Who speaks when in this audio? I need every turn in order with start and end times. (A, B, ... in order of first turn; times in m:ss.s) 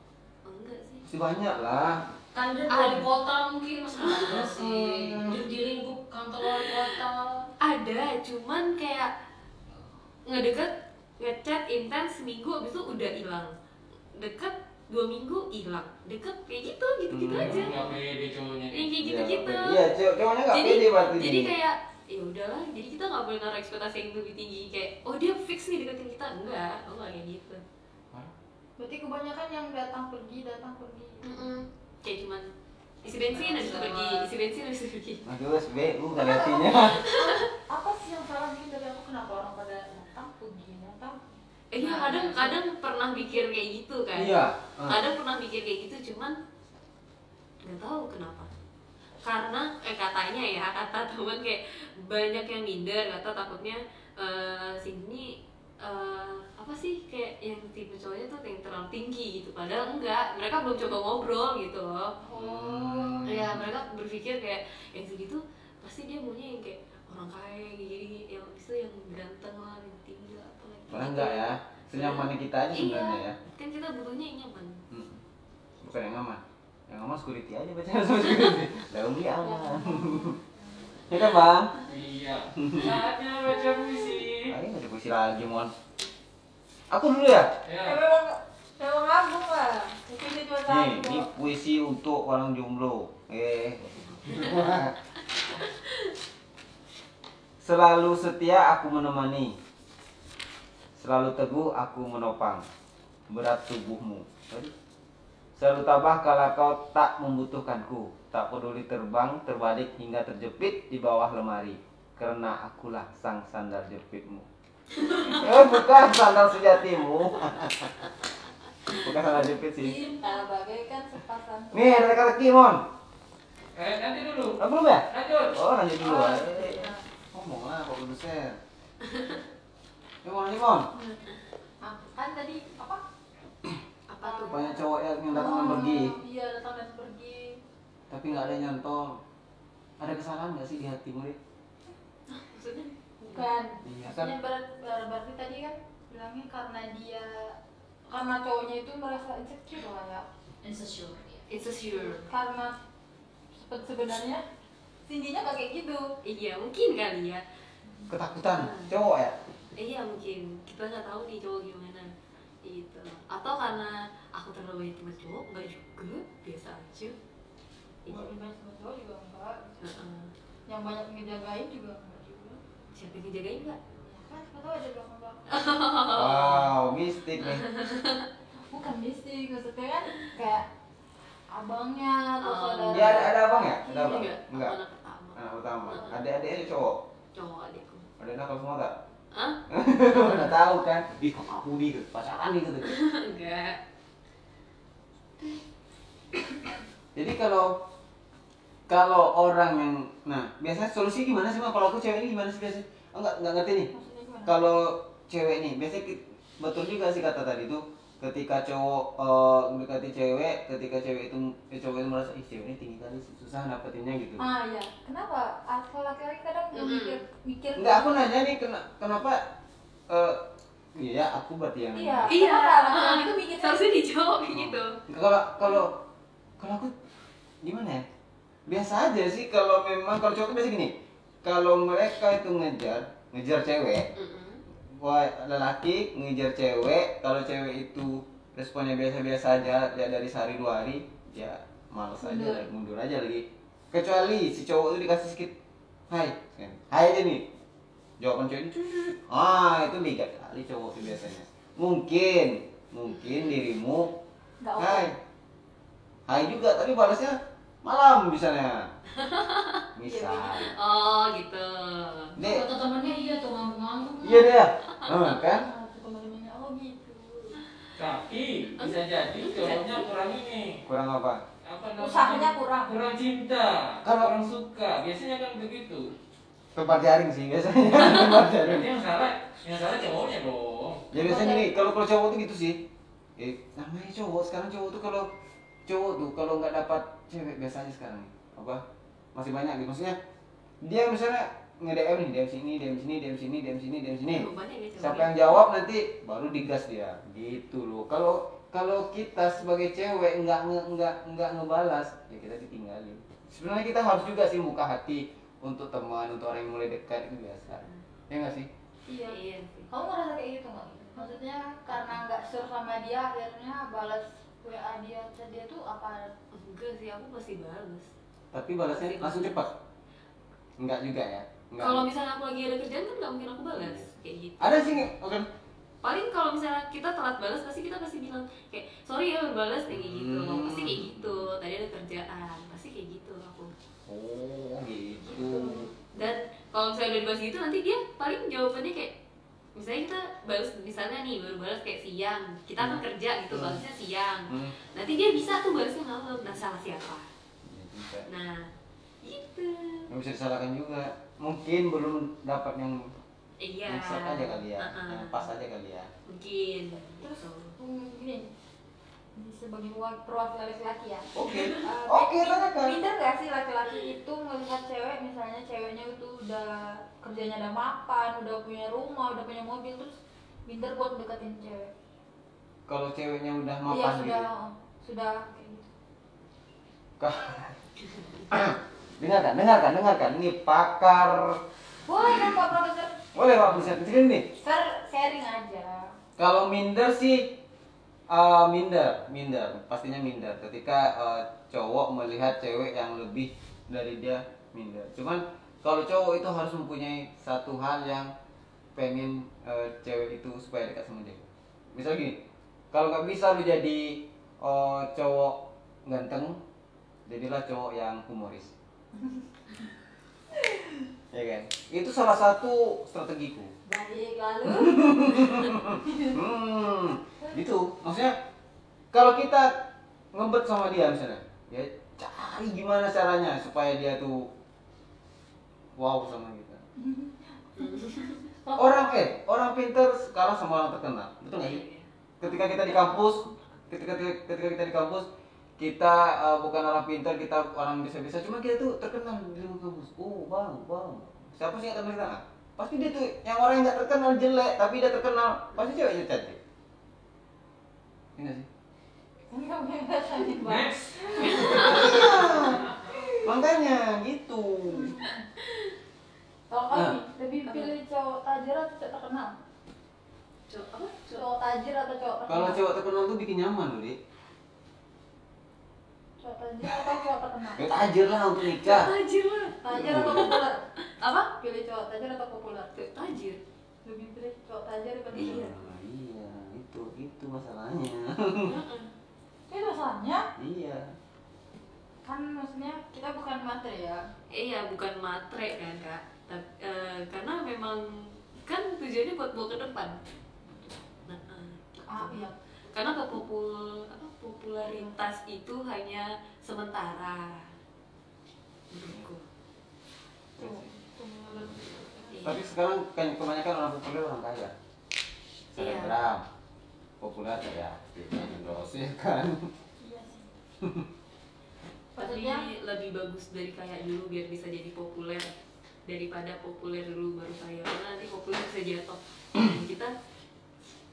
0:00.4-0:01.0 A
0:01.0-0:02.0 B
0:02.3-0:07.5 C
0:02.7-0:03.1 A
0:04.0-0:04.5 A
0:04.3-0:05.4 B
0:06.5-0:06.8 A
0:07.6-0:09.1 A
0:10.2-0:13.5 A
0:14.1-0:18.0 A
0:17.1-0:17.7 B
0:17.3-0:18.9 D
0:18.7-0:19.9 A
0:19.0-0:21.5 B
0:20.5-0:27.6 A
0:28.8-0:31.4 E
0:31.2-0:32.5 A
0:33.0-0:35.2 A
0:33.3-0:34.2 C
0:35.2-0:37.0 B
0:36.1-0:41.4 E
0:37.1-0:37.4 A
0:41.7-0:46.4 A
0:41.8-0:42.5 C
0:44.1-0:45.0 B
0:47.6-0:48.5 A
0:49.2-1:02.2 A
1:02.2-1:03.2 E
1:02.3-1:03.7 B
1:03.2-1:14.8 A
1:10.9-1:13.4 B
1:14.9-1:15.2 B
1:15.8-1:20.4 B
1:19.4-1:20.6 E
1:21.1-1:21.7 B
1:21.8-1:24.6 D
1:22.6-1:23.0 B
1:24.4-1:25.7 B
1:26.9-1:27.5 B
1:27.6-1:28.0 D
1:27.8-1:31.3 E
1:30.7-1:34.9 B
1:34.3-1:34.5 A
1:37.6-1:39.6 B
1:41.0-1:42.6 B
1:43.3-1:44.7 B
1:45.6-1:54.5 B
1:55.3-1:57.9 B
1:58.9-2:00.0 B
1:59.7-2:02.2 E
2:01.7-2:02.8 B
2:03.7-2:05.6 D
2:04.6-2:08.6 B
2:06.0-2:07.0 E
2:09.1-2:09.4 A
2:10.2-2:10.9 B
2:11.8-2:13.0 E
2:14.1-2:14.9 A
2:14.2-2:14.7 E
2:14.5-2:16.2 B
2:15.3-2:17.6 E
2:18.1-2:19.2 B
2:20.0-2:21.4 B
2:22.3-2:23.4 A
2:23.2-2:27.6 E
2:23.8-2:24.3 B
2:28.1-2:30.2 E
2:30.6-2:31.5 C
2:31.5-2:32.2 A
2:31.6-2:32.8 E
2:33.5-2:34.4 E
2:35.1-2:36.1 E
2:36.2-2:37.4 A
2:38.1-2:39.4 B
2:38.6-2:38.9 A
2:39.7-2:42.1 A
2:42.6-2:47.2 A
2:48.1-2:49.8 E
2:49.8-2:50.3 A
2:50.7-2:52.6 E
2:52.9-2:53.8 A
2:54.0-2:55.5 E
2:55.5-2:56.7 A
2:56.1-2:57.6 B
2:57.4-2:58.3 A
2:58.7-3:00.7 E
3:01.5-3:04.4 E
3:02.4-3:03.3 A
3:02.9-3:04.8 B
3:03.9-3:06.2 A
3:05.3-3:07.0 B
3:07.3-3:08.1 A
3:08.2-3:09.0 B
3:09.3-3:10.6 A
3:09.7-3:13.0 B
3:12.8-3:13.8 A
3:17.1-3:17.8 B
3:18.9-3:23.9 B
3:23.9-3:24.6 E
3:24.4-3:34.4 B
3:34.4-3:38.3 E
3:36.7-3:37.2 A
3:37.8-3:39.5 B
3:40.1-3:40.4 B
3:40.9-3:42.3 B
3:41.9-3:43.8 E
3:42.3-3:45.0 A
3:44.5-3:46.0 B
3:46.6-3:46.9 B
3:47.6-3:48.0 B
3:48.6-3:54.1 B
3:54.1-3:54.6 A
3:54.9-4:05.5 B
4:02.2-4:02.6 E
4:06.1-4:07.4 B
4:08.2-4:14.1 B
4:14.6-4:15.0 E
4:14.8-4:15.2 B
4:16.2-4:18.9 B
4:19.1-4:19.8 A
4:19.9-4:20.7 B
4:20.0-4:20.6 E
4:20.6-4:22.3 A
4:22.4-4:22.7 B
4:22.4-4:24.5 C
4:24.2-4:25.6 B
4:24.9-4:25.4 A
4:25.4-4:27.6 E
4:27.9-4:30.8 D
4:28.8-4:30.0 A
4:30.8-4:31.4 B
4:31.6-4:36.1 D
4:32.0-4:33.0 E
4:34.0-4:34.5 B
4:36.7-4:38.9 B
4:38.0-4:41.1 D
4:41.1-4:42.8 B
4:41.1-4:41.8 E
4:43.4-4:45.3 B
4:45.9-4:48.8 B
4:49.3-4:50.2 B
4:50.8-5:08.7 B
4:54.3-4:55.6 A
5:09.1-5:16.3 E
5:09.3-5:09.9 A
5:16.5-5:18.1 A
5:18.5-5:19.7 B
5:18.9-5:19.6 A
5:20.8-5:22.0 B
5:21.8-5:25.1 A
5:23.7-5:24.1 B
5:24.6-5:25.4 B
5:26.0-5:33.7 A
5:29.9-5:31.5 B
5:34.1-5:35.9 B
5:35.2-5:39.2 A
5:39.7-5:47.3 A
5:42.8-5:43.8 B
5:47.6-5:48.3 B
5:48.3-5:48.7 A
5:49.2-5:50.1 A
5:50.1-5:53.1 B
5:53.6-5:55.4 A
5:53.9-5:56.1 B
5:56.2-5:57.8 A
5:57.2-5:58.5 E
5:59.4-6:11.9 E
6:01.3-6:03.0 B
6:01.5-6:01.8 A
6:12.9-6:14.4 B
6:13.9-6:15.9 E
6:17.2-6:17.7 B
6:18.5-6:21.6 B
6:22.0-6:23.2 E
6:23.3-6:24.5 B
6:24.6-6:26.1 E
6:26.4-6:27.5 B
6:28.3-6:38.3 B
6:38.9-6:42.4 B
6:42.9-6:46.6 B
6:47.3-6:48.7 B
6:51.3-6:53.7 B
6:53.8-6:56.4 E
6:54.6-6:58.4 B
6:59.1-6:59.7 B
7:00.3-7:04.5 B
7:06.0-7:06.8 B
7:07.0-7:09.2 E
7:07.8-7:08.4 A
7:08.8-7:11.8 B
7:11.6-7:12.1 A
7:12.4-7:15.3 B
7:15.8-7:26.6 B
7:28.4-7:28.7 B
7:29.5-7:33.4 E
7:30.6-7:33.0 D
7:31.4-7:32.2 A
7:31.7-7:32.8 B
7:33.4-7:35.2 B
7:34.9-7:35.5 E
7:36.7-7:39.5 E
7:36.9-7:37.2 B
7:37.7-7:37.9 A
7:40.7-7:41.4 A
7:41.3-7:42.8 E
7:42.5-7:44.2 B
7:46.4-7:47.9 E
7:47.8-7:49.1 B
7:48.6-7:51.5 A
7:49.8-7:50.8 E
7:49.9-7:50.6 B
7:51.6-7:52.9 E
7:52.9-7:53.6 A
7:54.0-7:55.6 E
7:55.3-7:55.7 A
7:55.3-7:58.8 B
7:58.6-7:59.1 A
7:59.7-8:00.5 E
8:00.6-8:01.1 B
8:02.2-8:04.2 E
8:04.5-8:10.2 A
8:11.3-8:17.7 A
8:12.1-8:12.6 E
8:18.9-8:19.5 A
8:20.6-8:20.9 B
8:20.6-8:22.5 E
8:22.3-8:22.6 A
8:22.4-8:24.7 B
8:25.7-8:26.5 B
8:25.8-8:26.2 A
8:27.2-8:29.7 B
8:30.0-8:30.5 E
8:30.8-8:31.1 B
8:32.2-8:32.7 E
8:32.2-8:35.5 A
8:36.0-8:40.1 A